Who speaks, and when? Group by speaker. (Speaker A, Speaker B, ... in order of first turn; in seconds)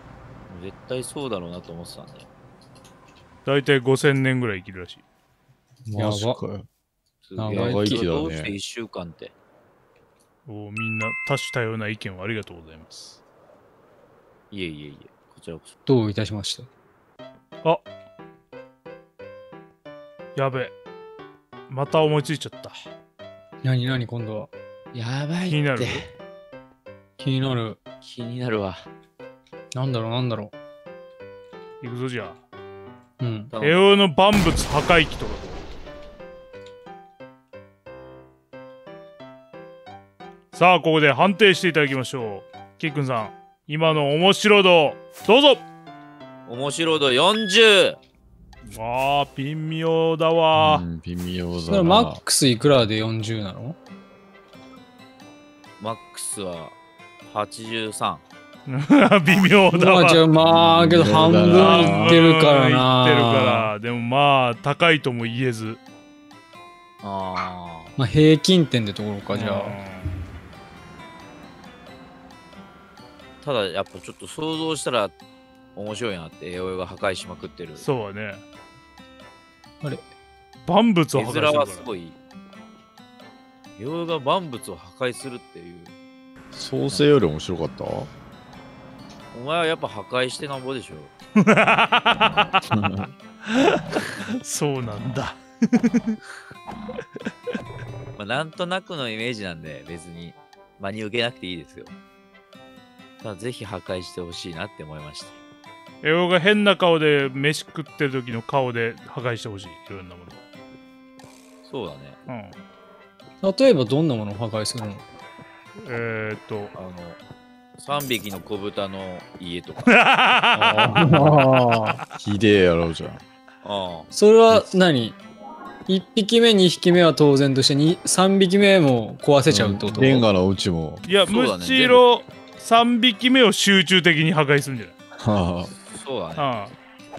Speaker A: 0.5-2.3, 7.2-9.3, 14.5-15.7, 24.9-26.1, 28.0-28.9, 33.5-33.8, 46.5-48.0, 55.8-56.7, 57.2-58.2, 67.0-67.9, 73.4-75.1, 75.7-77.8, 81.1-82.2, 83.8-85.9, 89.3-91.1, 92.1-92.6, 98.2-101.9, 103.2-105.3, 111.6-112.2, 116.7-117.2, 117.8-120.0, 123.6-124.1, 131.2-132.1, 135.8-136.5
Speaker B: 3.5-5.0, 10.5-13.2, 20.4-20.7, 21.7-22.7, 25.5-26.1, 31.8-32.4, 33.6-35.6, 40.5-45.6, 48.6-50.8, 58.7-60.2, 61.6-65.8, 69.3-70.1, 77.8-78.4, 80.7-81.9, 91.4-92.6, 93.5-96.1, 106.0-110.4, 112.3-112.5, 115.8-116.7, 119.9-121.2, 131.0-134.9, 136.4-136.7
Speaker C: 5.8-6.7, 7.5-8.6, 50.5-52.2, 60.4-62.2, 86.5-88.1, 92.7-93.1, 122.2-123.2, 129.5-131.1, 135.2-135.7
Speaker D: 6.0-6.4, 7.4-8.0, 15.8-16.7, 23.6-24.5, 27.2-27.8, 29.7-30.5, 33.2-33.5, 51.6-53.8, 59.7-63.7, 68.0-69.8, 113.4-115.0, 120.5-122.0, 124.1-125.2, 125.9-130.3